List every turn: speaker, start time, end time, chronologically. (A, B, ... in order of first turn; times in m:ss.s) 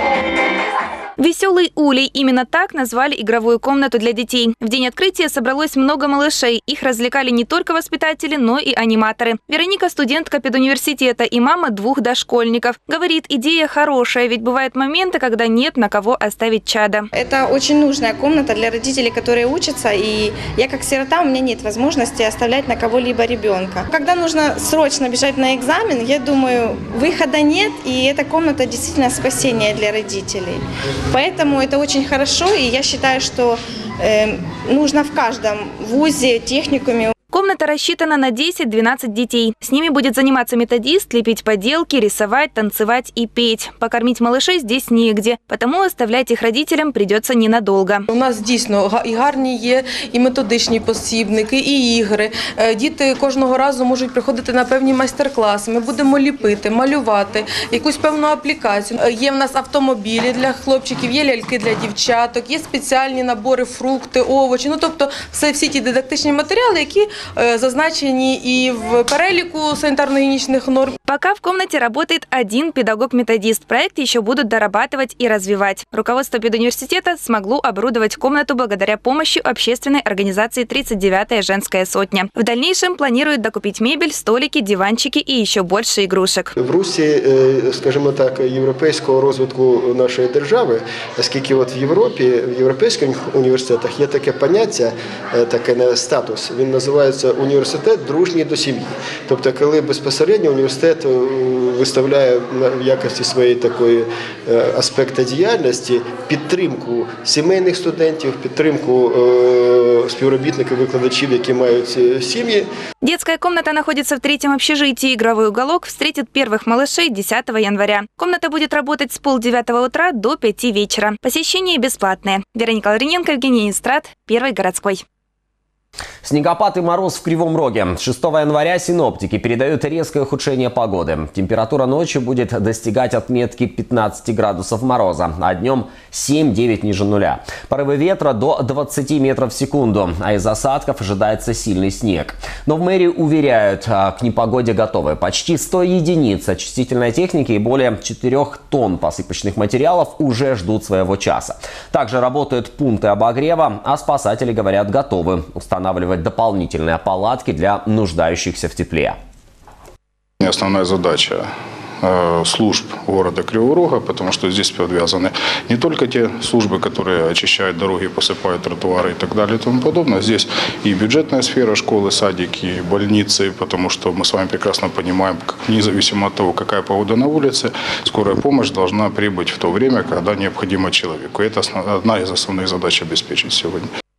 0:01.2-0:17.1 A
0:17.1-0:37.1 B
0:37.3-0:48.0 A
0:48.1-1:11.0 C
1:11.1-1:26.5 A
1:26.6-1:52.7 D
1:53.0-2:05.0 A
2:06.2-2:39.2 E
2:40.4-2:41.5 F
2:42.0-3:03.9 F